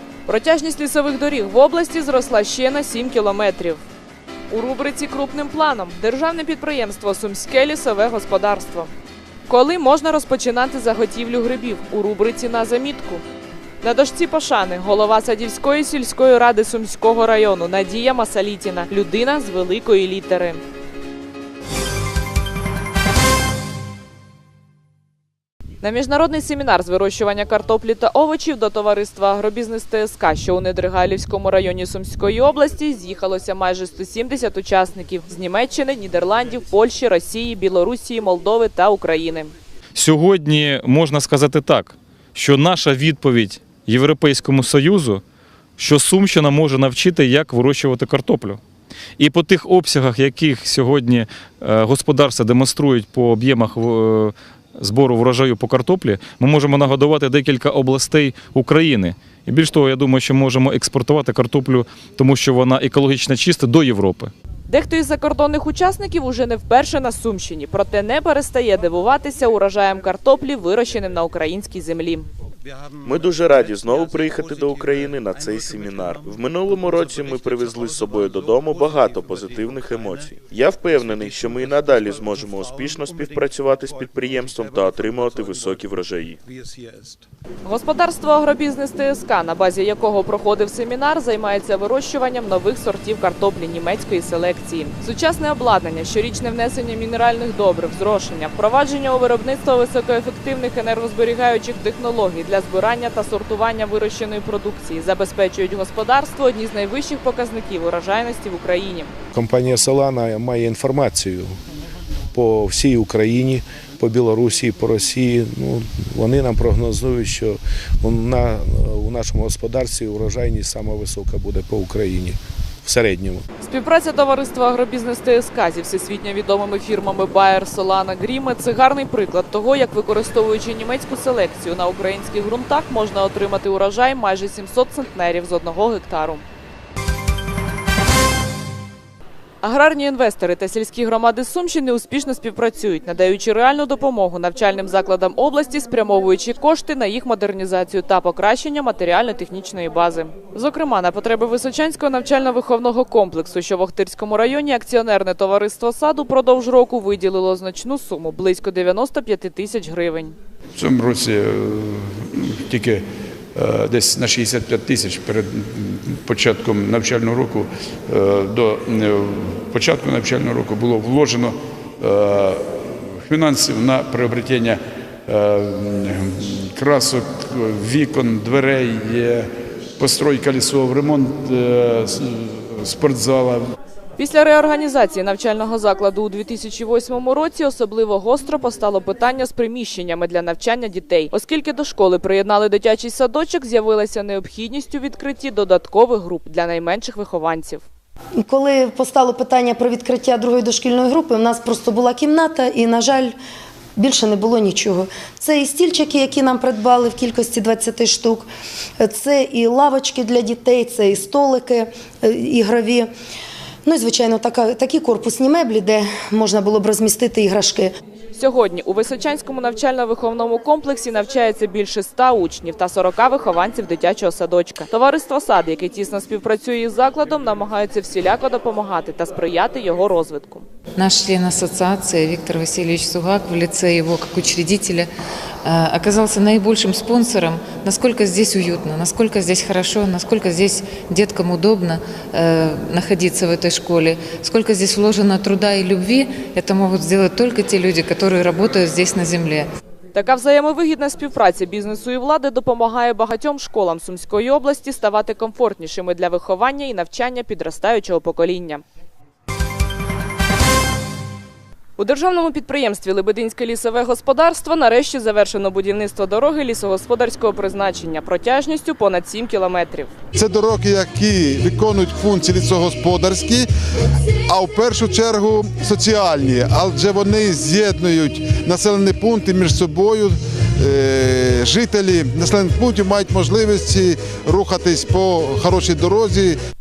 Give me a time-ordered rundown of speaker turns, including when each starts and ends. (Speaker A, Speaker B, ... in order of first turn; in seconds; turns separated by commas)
Speaker A: 0.2-3.8, Speaker A: 4.5-8.9, Speaker A: 9.5-13.2, Speaker A: 13.8-20.6, Speaker A: 25.8-39.5, Speaker B: 39.9-45.2, Speaker B: 45.8-48.6, Speaker B: 49.2-64.3, Speaker A: 64.7-72.3, Speaker C: 73.0-86.4, Speaker A: 87.6-109.1, Speaker D: 109.3-111.6, Speaker D: 112.3-123.4, Speaker A: 123.6-136.4, Speaker A: 139.6-160.3, Speaker E: 160.7-183.7, Speaker A: 184.2-197.8, Speaker F: 198.4-203.3, Speaker F: 204.0-208.5, Speaker F: 209.0-213.1, Speaker F: 213.8-217.9, Speaker A: 218.3-230.7, Speaker G: 230.9-235.1, Speaker G: 235.6-249.7, Speaker A: 250.1-258.8, Speaker A: 262.0-270.1, Speaker H: 270.3-273.7, Speaker H: 274.5-286.6